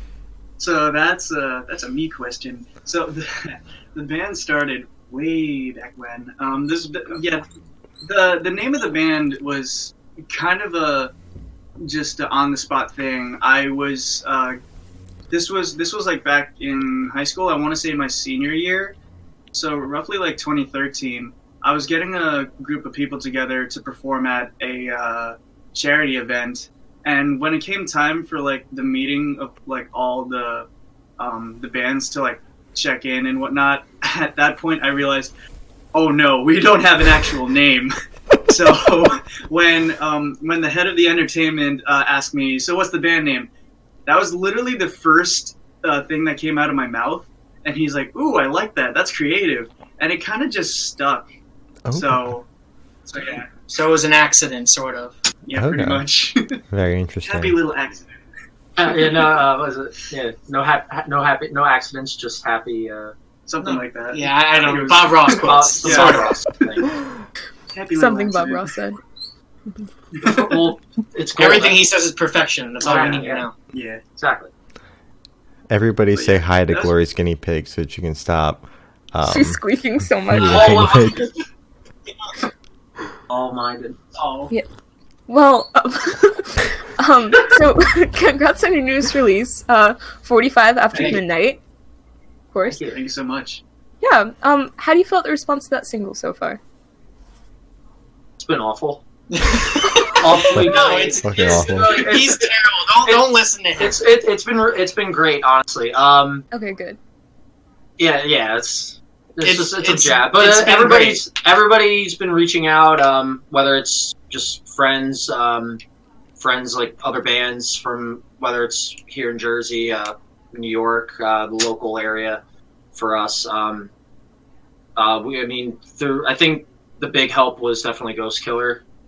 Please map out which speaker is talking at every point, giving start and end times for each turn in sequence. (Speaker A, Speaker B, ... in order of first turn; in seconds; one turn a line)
Speaker A: 0.6-7.4
Speaker A: 8.0-11.1
Speaker A: 11.8-14.6
Speaker A: 15.3-18.9
Speaker A: 19.5-30.7
Speaker A: 31.2-35.3
Speaker A: 35.9-37.9
Speaker A: 38.5-43.5
Speaker A: 44.0-51.3
Speaker B: 51.9-52.3
Speaker A: 51.9-52.5
Speaker A: 53.1-53.5
Speaker C: 53.7-55.1
Speaker A: 55.5-56.6
Speaker B: 55.5-56.0
Speaker B: 56.7-57.6
Speaker A: 57.2-58.0
Speaker D: 58.8-63.1
Speaker A: 63.5-66.3
Speaker C: 64.1-66.3
Speaker D: 65.4-66.9
Speaker A: 67.7-68.8
Speaker E: 67.9-69.0
Speaker A: 70.2-70.5
Speaker D: 70.2-71.8
Speaker C: 71.4-73.5
Speaker D: 72.8-73.5
Speaker A: 72.8-74.0
Speaker D: 74.2-74.5
Speaker B: 75.7-81.2
Speaker A: 76.1-76.9
Speaker E: 79.2-80.9
Speaker D: 80.4-81.4
Speaker D: 83.3-84.1
Speaker C: 84.1-84.5
Speaker E: 85.3-91.6
Speaker D: 90.9-91.2
Speaker E: 92.5-92.8
Speaker D: 92.6-93.0
Speaker A: 92.9-93.6
Speaker E: 94.0-96.6
Speaker D: 98.4-99.0
Speaker C: 99.3-104.0
Speaker D: 100.1-102.5
Speaker B: 100.5-102.0
Speaker D: 103.0-106.4
Speaker E: 106.5-107.0
Speaker D: 108.0-115.8
Speaker C: 109.4-111.2
Speaker D: 116.4-122.4
Speaker D: 122.9-123.9
Speaker D: 125.0-128.8